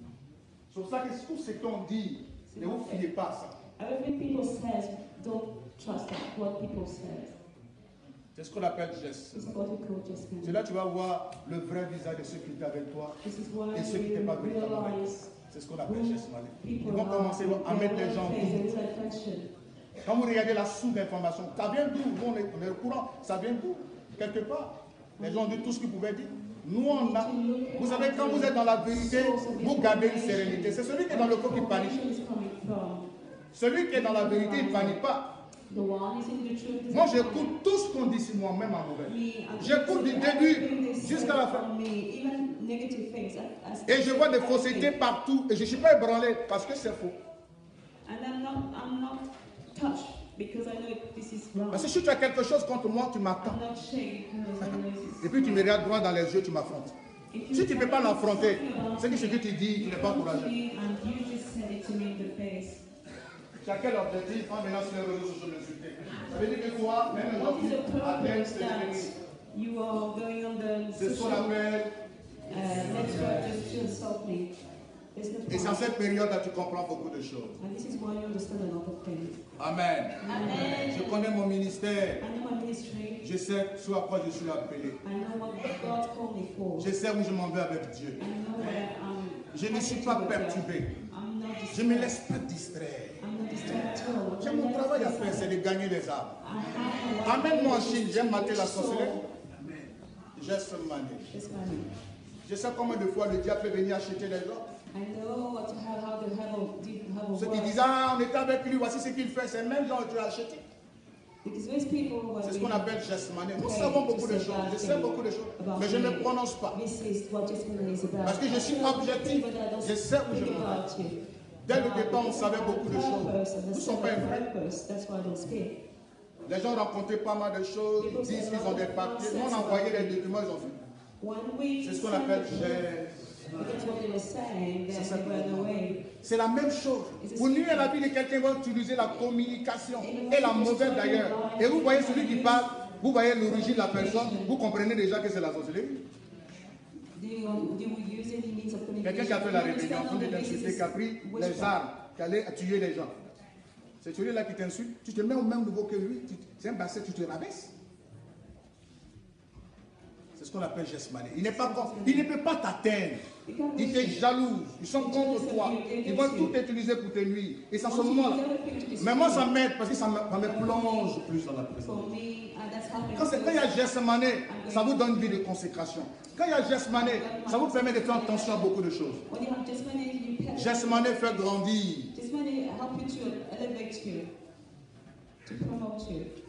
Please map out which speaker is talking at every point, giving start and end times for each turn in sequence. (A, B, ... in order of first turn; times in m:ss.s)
0:00.7-0:03.6 A
0:02.5-0:03.1 B
0:03.8-0:07.4 B
0:08.4-0:09.6 A
0:09.3-0:10.6 B
0:10.4-0:13.2 A
0:13.2-0:15.3 B
0:13.7-0:18.7 A
0:15.8-0:19.5 B
0:20.0-0:32.0 A
0:25.2-0:25.6 B
0:26.8-0:33.1 B
0:33.5-0:35.3 A
0:33.9-0:35.0 B
0:35.7-0:37.5 B
0:36.9-0:41.7 A
0:39.1-0:45.0 B
0:43.9-0:47.2 A
0:48.0-0:51.9 B
0:51.7-0:53.6 A
0:53.4-0:55.8 B
0:54.6-0:56.9 A
0:57.3-1:02.8 B
0:57.5-1:00.5 A
1:03.6-1:09.1 A
1:07.1-1:11.6 B
1:11.0-1:11.9 A
1:12.5-1:14.5 B
1:12.5-1:13.8 A
1:15.1-1:15.9 B
1:15.5-1:17.6 A
1:17.6-1:19.4 B
1:19.6-1:22.2 A
1:20.2-1:21.2 B
1:22.2-1:23.2 B
1:23.2-1:25.0 A
1:25.0-1:26.9 B
1:26.8-1:28.8 A
1:28.2-1:32.2 B
1:29.5-1:31.0 A
1:31.7-1:36.4 A
1:33.2-1:35.6 B
1:36.4-1:39.2 B
1:37.2-1:41.3 A
1:41.3-1:41.9 B
1:42.5-1:44.7 A
1:44.9-1:47.8 B
1:47.4-1:50.6 A
1:51.4-1:52.9 B
1:52.4-1:56.8 A
1:53.6-2:05.8 B
1:58.2-2:00.8 A
2:01.7-2:04.4 A
2:06.5-2:10.8 A
2:08.0-2:10.2 B
2:11.2-2:12.8 B
2:11.8-2:13.2 A
2:13.6-2:16.0 B
2:14.9-2:26.0 A
2:17.2-2:18.0 B
2:20.0-2:22.7 B
2:23.4-2:24.6 B
2:27.1-2:31.8 B
2:29.0-2:33.4 A
2:34.0-2:37.7 A
2:40.4-2:43.2 A
2:41.5-2:42.3 B
2:43.4-2:44.2 B
2:43.8-2:48.4 A
2:45.0-2:46.6 B
2:47.8-2:49.5 B
2:49.0-2:52.1 A
2:50.4-2:51.2 B
2:51.8-2:53.8 B
2:53.1-2:59.2 A
2:54.5-2:55.4 B
2:56.9-2:58.7 B
2:59.3-3:01.5 B
3:00.5-3:02.1 A
3:02.1-3:04.3 B
3:05.4-3:06.3 B